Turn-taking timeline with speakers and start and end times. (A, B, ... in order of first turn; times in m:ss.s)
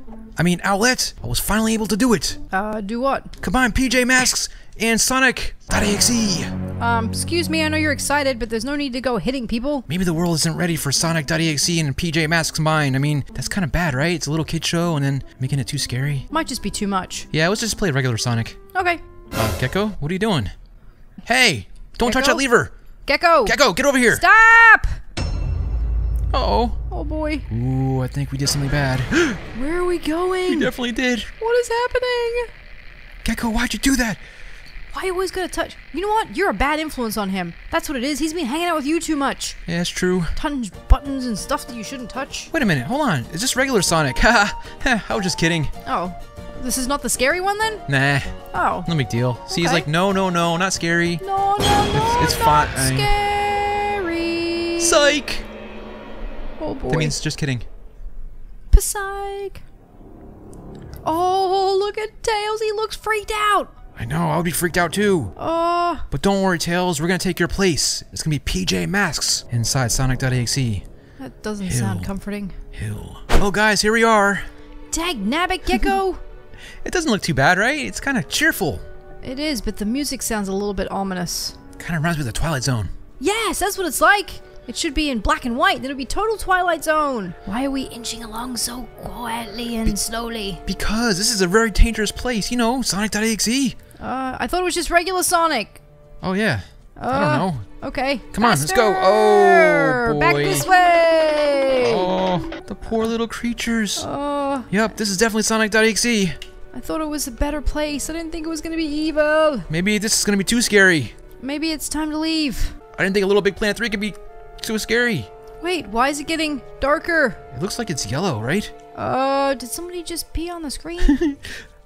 0:00.4-0:02.4 A
0:02.5-0:03.3 B
0:03.4-0:06.5 A
0:06.8-0:09.9 B
0:09.9-0:16.3 A
0:16.3-0:17.3 B
0:17.3-0:18.6 A
0:18.7-0:19.0 B
0:19.3-0:20.5 A
0:21.2-0:22.7 A
0:22.0-0:22.4 B
0:23.0-0:23.6 B
0:23.4-0:24.2 A
0:24.1-0:25.0 B
0:26.3-0:26.8 A
0:26.9-0:27.5 B
0:27.5-0:29.4 A
0:29.5-0:30.7 B
0:30.5-0:31.3 A
0:31.4-0:32.5 B
0:33.2-0:34.2 A
0:34.9-0:39.6 B
0:39.6-0:40.4 A
0:40.4-0:42.5 B
0:42.5-0:45.7 A
0:45.8-0:47.8 B
0:47.9-0:51.2 A
0:48.5-0:48.9 B
0:49.5-0:49.9 B
0:51.2-0:55.2 B
0:51.9-0:53.1 A
0:54.8-0:55.4 A
0:56.6-0:57.2 B
0:56.9-0:57.6 A
0:58.7-0:59.6 B
1:01.0-1:03.7 B
1:04.0-1:05.3 A
1:05.4-1:06.0 B
1:06.1-1:10.8 A
1:11.2-1:12.6 B
1:11.6-1:12.1 A
1:12.7-1:14.5 A
1:14.9-1:16.2 B
1:16.8-1:18.8 A
1:19.2-1:21.6 B
1:21.8-1:22.9 A
1:23.2-1:30.6 B
1:30.6-1:33.8 A
1:34.0-1:35.8 B
1:36.2-1:37.6 A
1:37.0-1:42.1 B
1:38.3-1:40.7 A
1:41.8-1:44.0 A
1:44.0-1:44.7 B
1:44.7-1:46.4 A
1:46.7-1:49.7 B
1:49.7-1:51.1 A
1:51.4-1:52.8 B
1:52.9-1:55.3 A
1:55.6-1:57.4 B
1:57.5-1:58.7 A
1:58.9-2:01.2 B
2:01.0-2:01.6 A